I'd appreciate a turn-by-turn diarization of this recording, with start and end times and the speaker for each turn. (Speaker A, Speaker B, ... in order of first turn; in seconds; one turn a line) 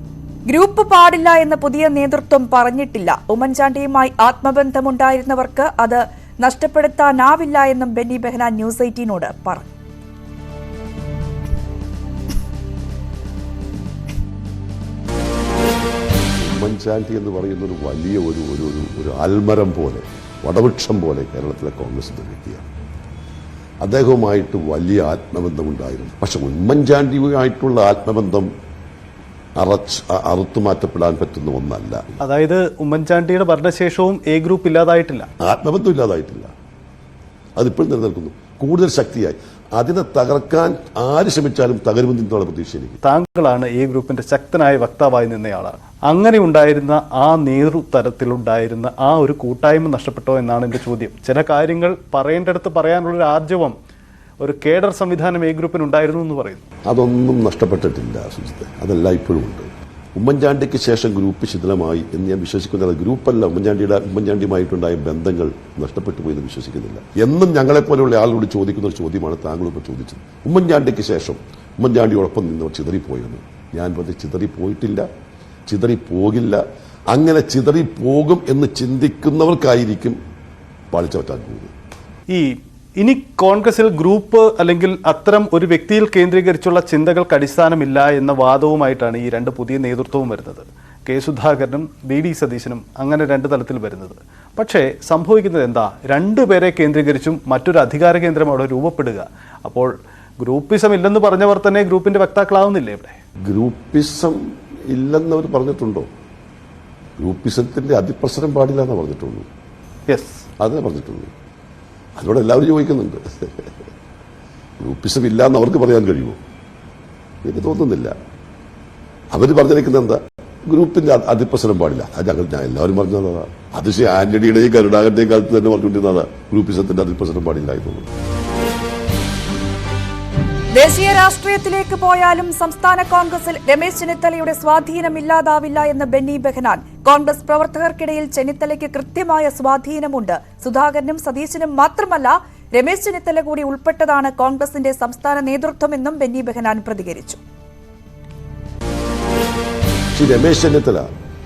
Speaker A: 0.5-9.7
Speaker B: 16.4-22.7
Speaker B: 23.8-28.5
Speaker B: 29.6-32.2
Speaker C: 32.2-35.3
Speaker B: 35.4-36.5
Speaker B: 37.6-43.0
Speaker C: 43.0-53.8
Speaker C: 54.4-56.6
Speaker B: 56.9-75.0
Speaker B: 75.7-80.2
Speaker B: 80.9-81.7
Speaker C: 82.3-103.2
Speaker B: 103.5-106.1
Speaker B: 107.2-109.5
Speaker C: 110.1-110.4
Speaker B: 110.6-111.3
Speaker B: 112.2-113.7
Speaker B: 114.8-116.4
Speaker B: 117.4-118.1
Speaker B: 119.3-128.1
Speaker A: 130.7-147.4
Speaker B: 150.1-151.1